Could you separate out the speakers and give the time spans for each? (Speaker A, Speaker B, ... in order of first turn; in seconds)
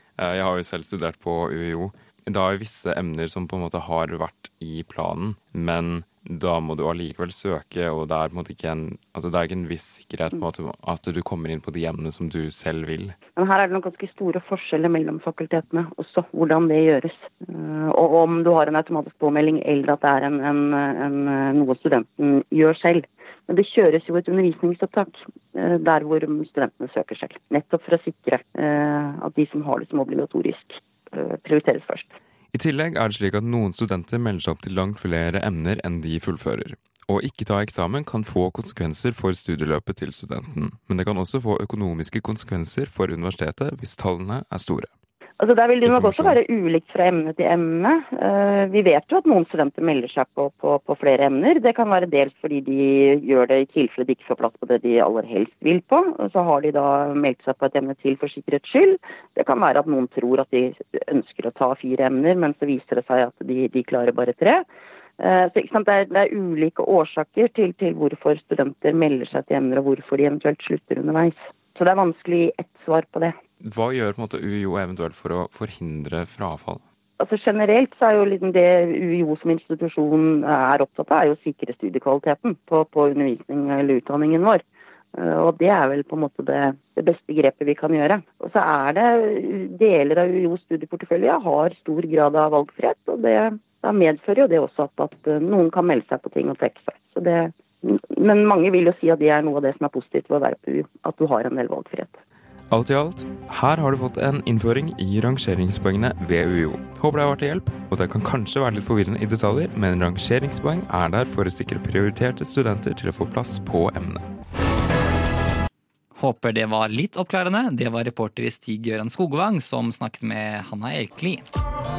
Speaker A: 0.2-13.2, 32.5-44.9, 45.9-46.4, 73.6-76.8, 102.7-114.2
Speaker B: 13.3-32.1, 45.4-64.6, 65.2-73.4, 77.2-84.6, 85.1-102.2
Speaker C: 116.1-121.4